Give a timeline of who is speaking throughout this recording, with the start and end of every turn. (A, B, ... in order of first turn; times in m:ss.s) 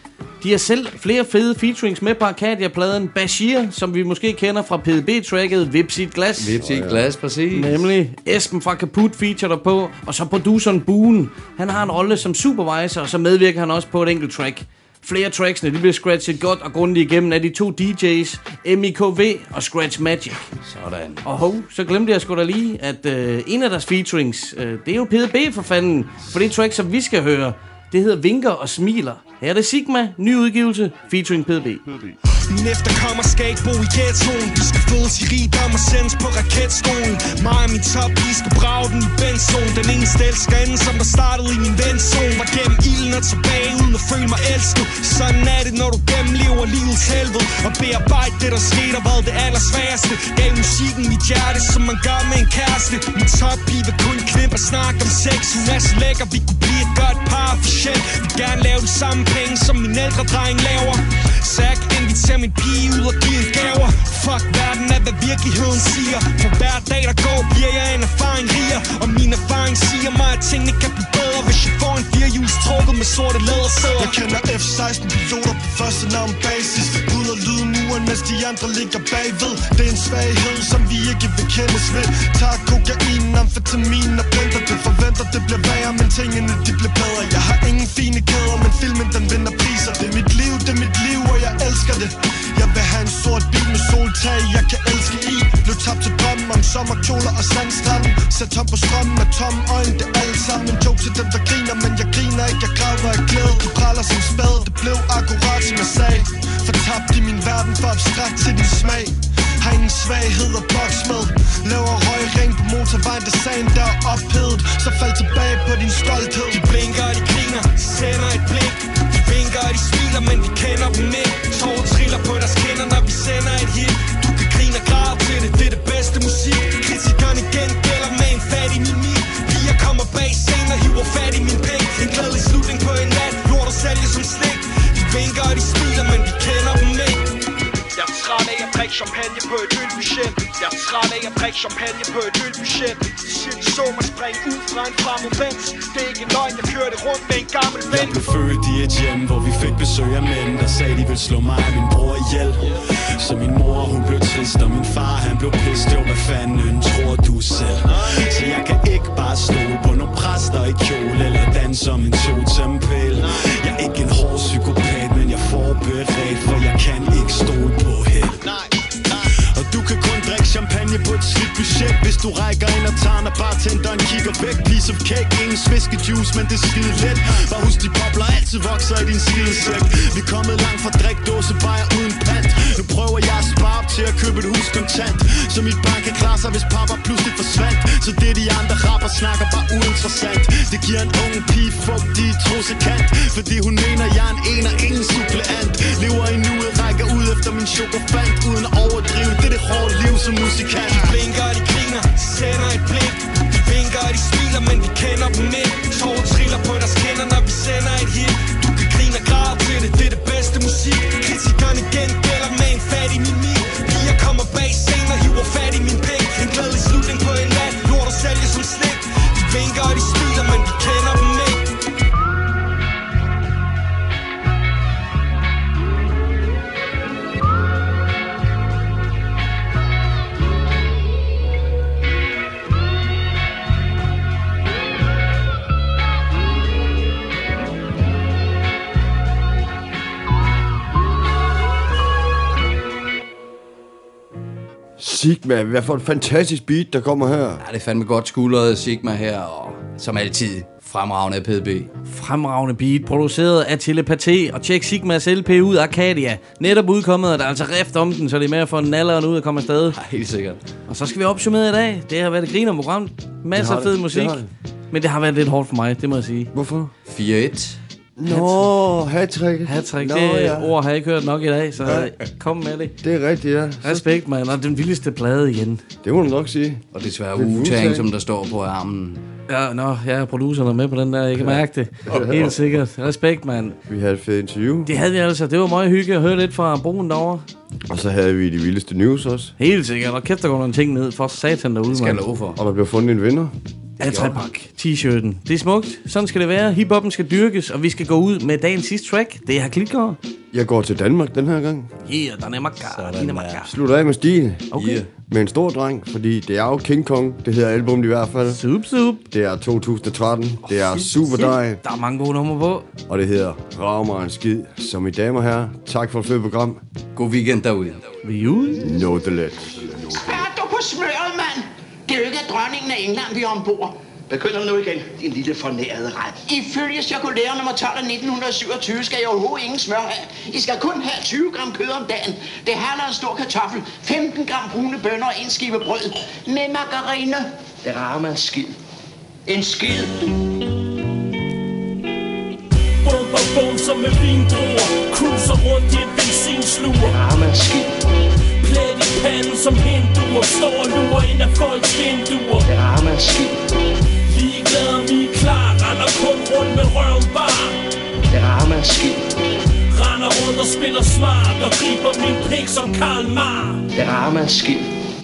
0:00.4-0:06.6 A
0:06.4-0:07.8 B
0:06.6-0:07.0 C
0:07.5-0:20.5 A
0:20.6-0:21.3 B
0:21.2-0:31.8 A
0:32.5-1:14.2 D
1:13.9-1:56.6 E
1:56.2-2:17.3 D
2:17.9-2:32.6 F
2:33.2-3:20.9 F
3:19.6-3:41.7 D
4:05.0-4:07.6 C
4:07.6-4:11.9 B
4:12.1-4:20.0 A
4:19.9-4:20.6 B
4:20.9-4:26.5 A
4:23.5-4:24.5 C
4:26.5-4:26.9 C
4:27.0-4:27.8 B
4:28.2-4:30.7 C
4:28.2-4:28.7 A
4:29.6-4:32.9 A
4:33.0-4:34.0 C
4:33.8-4:35.8 A
4:36.0-4:36.8 C
4:36.9-4:39.2 B
4:37.3-4:38.1 C
4:39.5-4:43.8 A
4:41.4-4:42.6 C
4:43.9-4:44.9 C
4:44.8-4:47.4 A
4:47.9-4:49.5 C
4:49.6-4:52.2 A
4:51.9-4:52.6 B
4:52.6-4:53.5 C
4:54.0-5:00.2 A
4:54.0-4:54.4 B
5:00.5-5:01.9 C
5:02.0-5:03.7 A
5:02.8-5:03.7 B
5:03.7-5:08.6 C
5:04.7-5:05.0 A
5:08.5-5:09.2 A
5:09.3-5:11.8 C
5:10.6-5:12.9 A
5:13.1-5:16.8 C
5:17.1-5:18.0 B
5:18.2-5:18.9 A
5:18.8-5:20.4 C
5:20.1-5:37.5 G
5:37.8-5:38.8 H
5:39.4-5:40.3 G
5:43.0-5:47.2 I
5:47.0-5:48.1 H
5:48.6-5:52.7 I
5:52.6-5:53.7 H
5:54.2-5:57.8 I
5:58.3-5:59.4 H
5:59.9-6:03.8 I
6:03.9-6:05.0 H